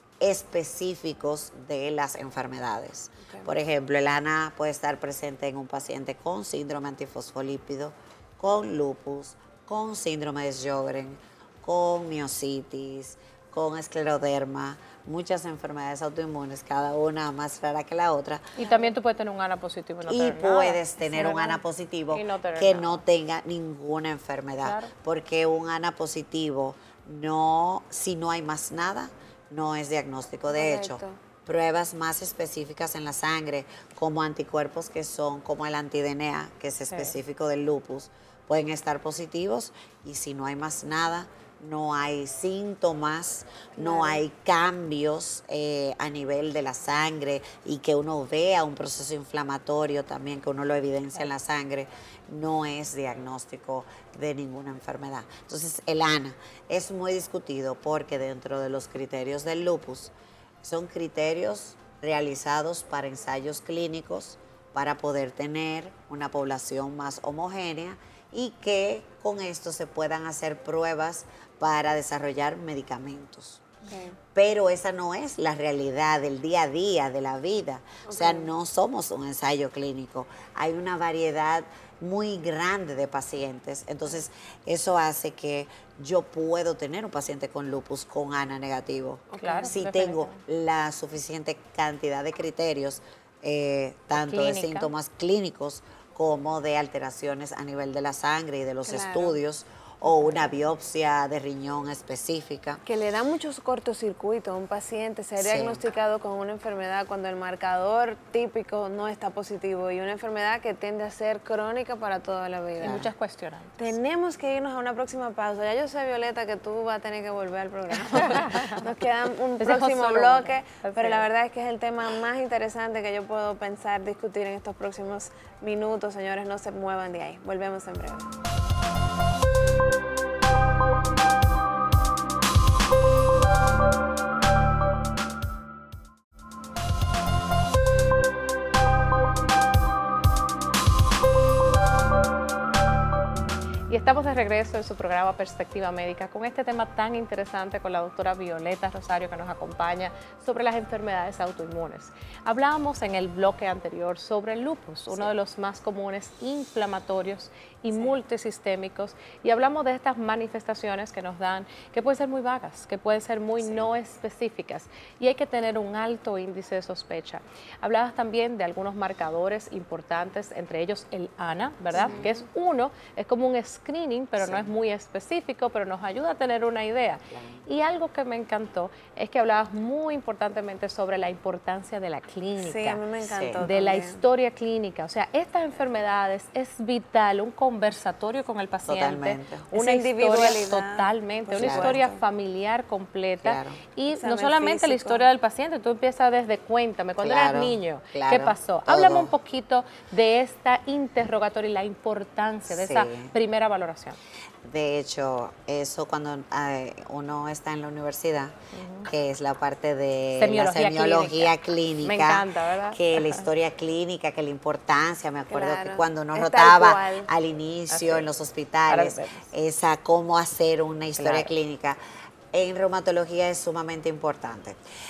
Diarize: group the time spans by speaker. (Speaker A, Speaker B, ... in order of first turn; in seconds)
Speaker A: 0.2-18.6, 20.1-73.6, 74.3-102.8, 105.4-105.8, 112.8-113.1, 163.6-163.9, 174.4-174.7, 177.3-177.6, 183.3-183.7, 188.9-189.7, 191.6-192.0, 193.4-193.8, 197.2-199.3, 202.7-203.3, 204.6-222.0, 222.5-224.8
Speaker B: 3.2-3.5, 18.6-18.9, 30.5-31.2, 43.8-44.2, 73.9-74.2, 78.0-78.5, 89.3-89.7, 98.9-99.4, 102.8-113.1, 113.8-128.3, 172.0-172.4, 182.6-184.2, 189.8-192.2, 194.1-195.3, 215.5-217.3
Speaker C: 18.6-23.0, 24.6-24.9, 36.9-37.1, 89.4-90.4, 94.2-94.9, 112.8-114.0, 118.1-118.8, 119.6-121.2, 143.9-183.0, 183.6-204.2, 208.7-209.1, 210.4-213.5, 217.9-218.3, 218.9-219.5, 221.2-221.5